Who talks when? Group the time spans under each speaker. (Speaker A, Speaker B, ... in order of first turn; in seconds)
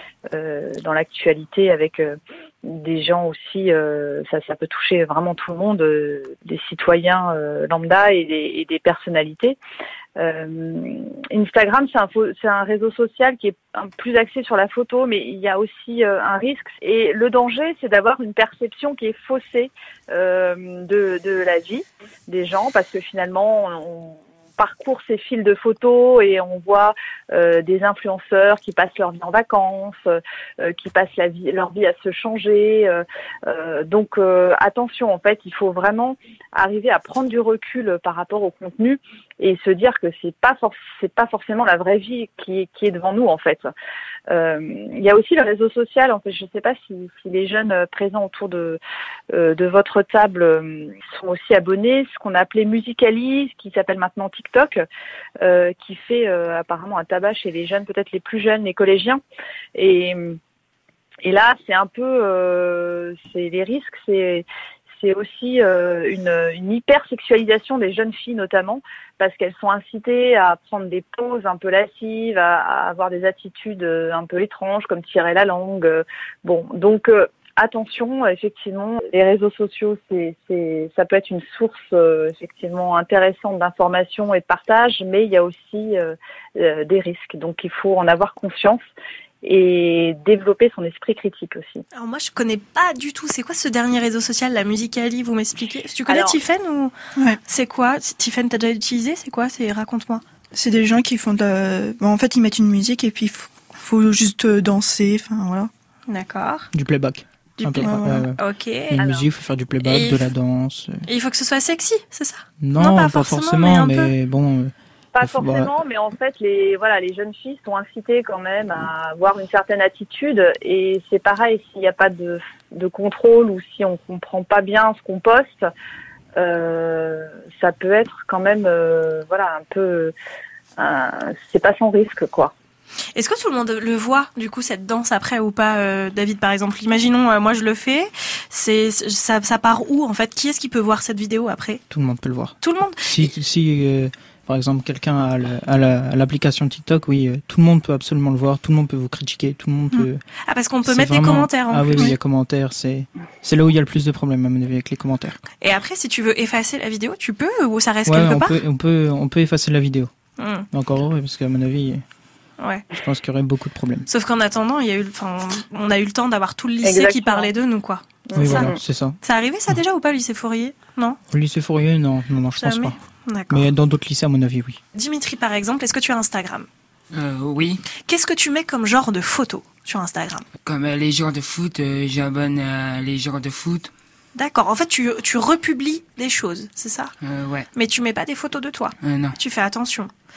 Speaker A: 0.3-9.6, 10.2-43.7, 44.3-48.8, 49.3-54.8, 55.4-59.2, 59.8-60.4, 61.2-64.4, 65.0-88.8, 89.4-91.8, 96.1-96.3, 109.0-109.3, 115.1-125.6, 126.4-130.1, 130.8-132.5, 166.8-167.5, 168.3-168.8
Speaker B: 91.9-96.9, 97.4-100.2, 106.1-106.7, 107.6-109.0, 109.8-110.2, 111.1-114.1, 133.1-141.8, 142.6-143.3, 150.5-152.2, 155.6-158.6, 160.4-160.7, 162.6-162.8, 164.1-168.7, 169.2-171.2, 172.6-173.7, 174.9-176.7, 178.1-180.4, 184.3-187.1, 187.7-190.1
Speaker C: 100.5-105.7, 107.8-108.2
Speaker D: 106.7-108.4, 108.9-111.0, 112.6-115.7, 141.9-150.2, 150.8-155.4, 158.1-160.1, 160.7-162.0, 163.0-164.1, 168.3-169.2, 171.3-172.9, 173.5-174.8
Speaker E: 177.1-177.8, 180.6-183.9, 187.2-187.7, 189.0-189.3